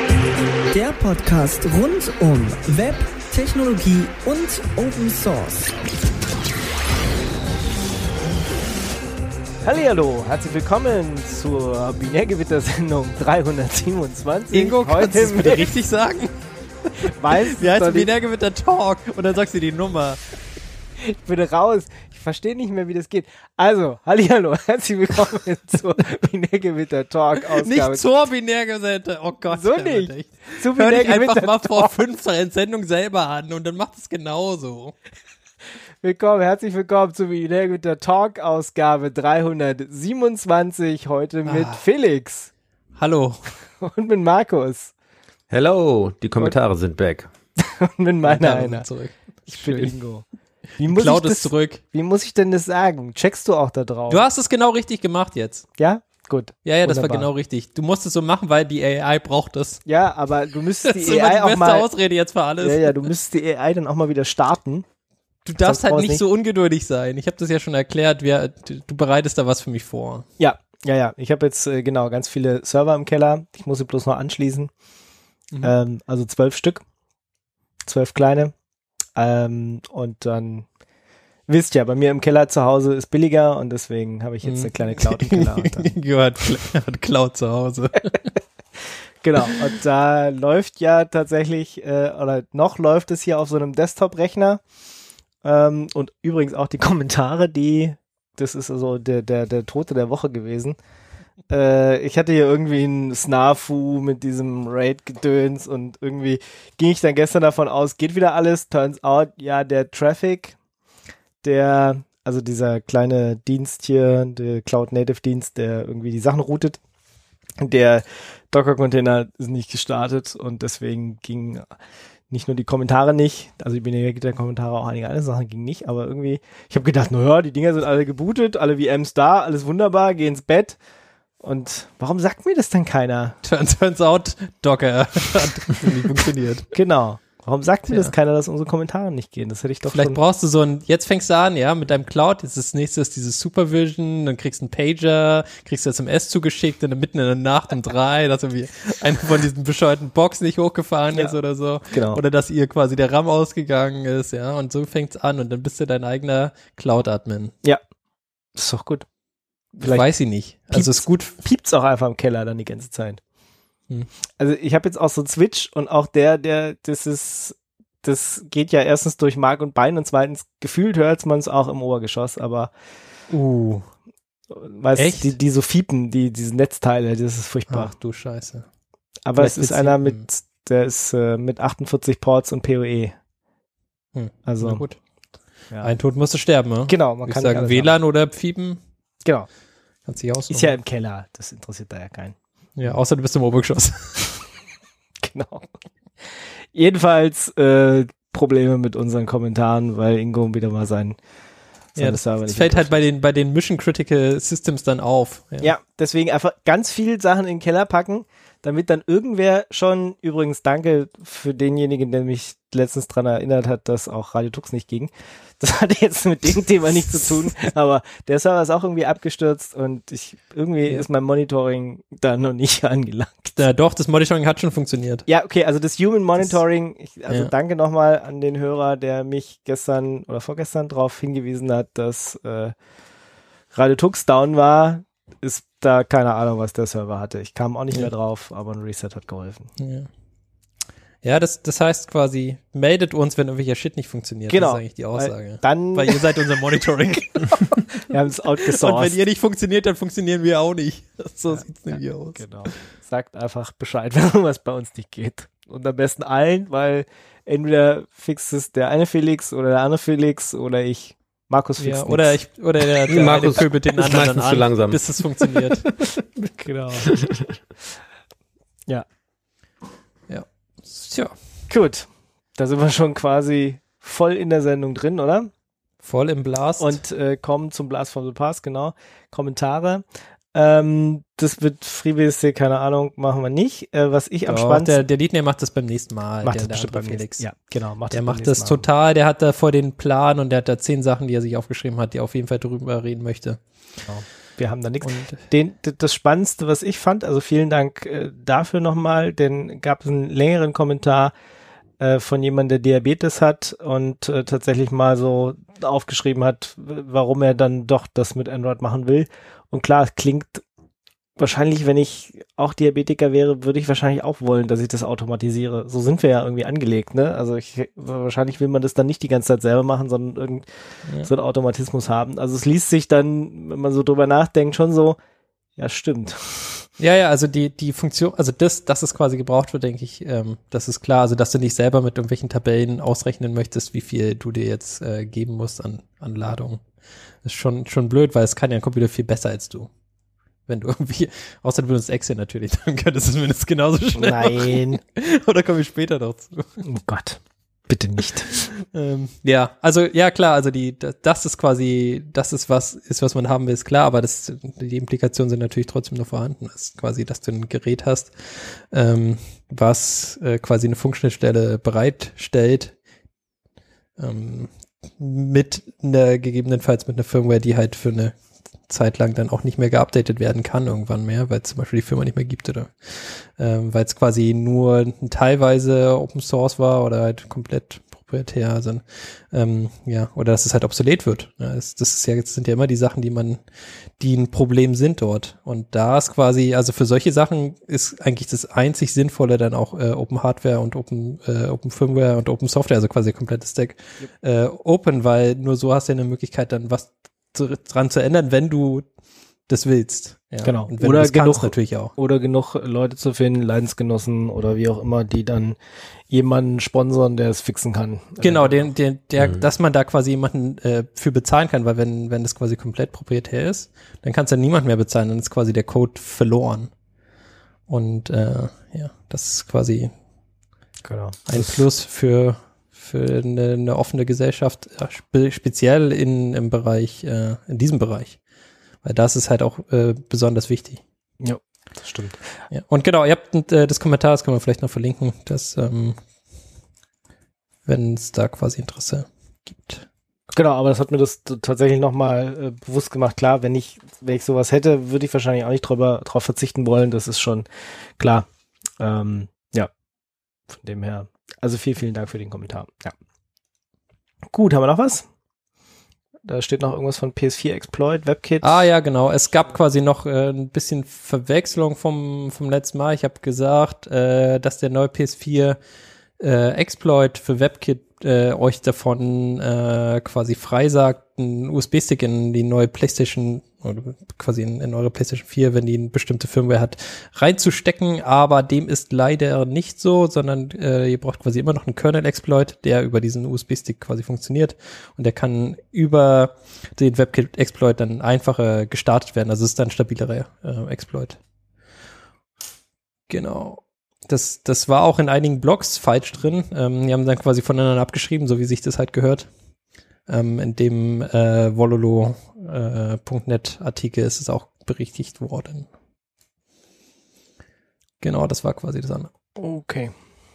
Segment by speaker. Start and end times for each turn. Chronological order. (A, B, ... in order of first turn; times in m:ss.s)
0:00.7-0:05.7 A
0:09.6-0:15.7 B
0:14.5-0:16.4 C
0:17.0-0:18.1 B
0:17.1-0:20.2 C
0:21.0-0:28.1 B
0:27.5-0:35.0 C
0:29.5-0:31.9 B
0:36.0-0:42.5 B
0:41.5-0:41.8 C
0:43.0-0:43.4 C
0:43.8-0:44.9 B
0:45.5-0:47.3 D
0:47.6-0:48.9 B
0:48.2-0:49.9 C
0:49.5-0:50.3 B
0:50.8-0:54.2 B
0:50.8-0:51.8 C
0:54.1-0:55.7 C
0:55.8-0:57.3 B
0:56.6-0:59.9 C
0:59.9-1:01.9 B
1:00.8-1:03.1 C
1:02.6-1:04.9 B
1:05.4-1:10.3 C
1:05.6-1:06.2 B
1:10.4-1:14.7 B
1:15.6-1:16.8 B
1:17.9-1:18.5 B
1:19.2-1:20.7 B
1:21.5-1:25.9 B
1:24.4-1:28.3 C
1:29.2-1:34.6 B
1:35.4-1:40.8 B
1:41.5-1:50.6 B
1:51.4-1:56.8 B
1:57.6-2:01.6 B
2:02.3-2:10.8 B
2:11.4-2:13.4 B
2:13.4-2:16.7 C
2:16.7-2:20.2 B
2:19.9-2:37.5 C
2:31.9-2:32.2 B
2:38.6-2:39.1 B
2:39.7-2:40.1 B
2:39.8-2:41.4 C
2:40.7-2:43.2 B
2:44.4-2:52.7 B
2:53.3-2:53.9 C
2:54.5-2:57.9 B
2:55.0-2:55.4 C
2:57.7-2:58.7 C
2:59.3-3:03.2 B
2:59.4-3:00.3 C
3:04.2-3:05.0 C
3:04.5-3:04.9 B
3:05.8-3:08.8 C
3:06.9-3:07.9 B
3:10.1-3:10.7 C
3:10.5-3:12.9 B
3:12.8-3:14.5 C
3:15.2-3:15.7 B
3:16.7-3:21.2 B
3:22.0-3:23.0 B
3:22.0-3:25.7 C
3:25.6-3:43.6 B
3:43.6-3:45.2 C
3:45.3-3:52.7 B
3:53.7-3:59.7 B
3:59.8-4:00.1 C
4:01.2-4:07.6 C
4:04.5-4:06.6 B
4:07.1-4:09.2 B
4:08.7-4:12.8 C
4:11.5-4:22.4 B
4:21.8-4:25.9 C
4:23.1-4:25.0 D
4:26.4-4:27.1 B
4:30.3-4:31.4 C
4:31.7-4:35.5 B
4:36.0-4:37.0 C
4:36.8-4:45.0 B
4:44.5-4:47.4 C
4:46.4-4:48.8 B
4:48.1-4:53.6 C
4:54.1-5:01.3 B
4:55.0-4:55.4 C
5:02.0-5:10.6 B
5:11.4-5:20.7 B
5:21.2-5:25.2 B
5:25.8-5:26.9 B
5:27.0-5:36.8 C
5:37.4-5:39.9 C
5:40.7-5:46.8 C
5:44.2-5:45.0 B
5:46.8-5:48.6 B
5:48.7-6:03.0 C
6:04.2-6:08.4 C
6:08.9-6:23.6 C
6:24.2-6:39.1 C
6:39.7-6:42.1 C
6:40.6-6:45.8 B
6:46.3-6:48.9 B
6:48.4-6:56.9 C
6:57.9-7:00.1 C
7:01.0-7:01.8 B
7:01.5-7:08.4 C
7:09.0-7:11.0 C
7:11.4-7:12.4 B
7:12.7-7:16.2 C
7:17.9-7:20.1 C
7:20.5-7:27.7 B
7:28.2-7:28.5 B
7:29.0-7:29.9 B
7:30.7-7:33.1 B
7:34.5-7:35.3 B
7:36.4-7:38.8 B
7:38.6-7:45.8 C
7:46.4-8:11.4 C
8:13.3-8:19.5 C
8:20.3-8:25.9 C
8:28.2-8:29.3 C
8:29.6-8:30.1 B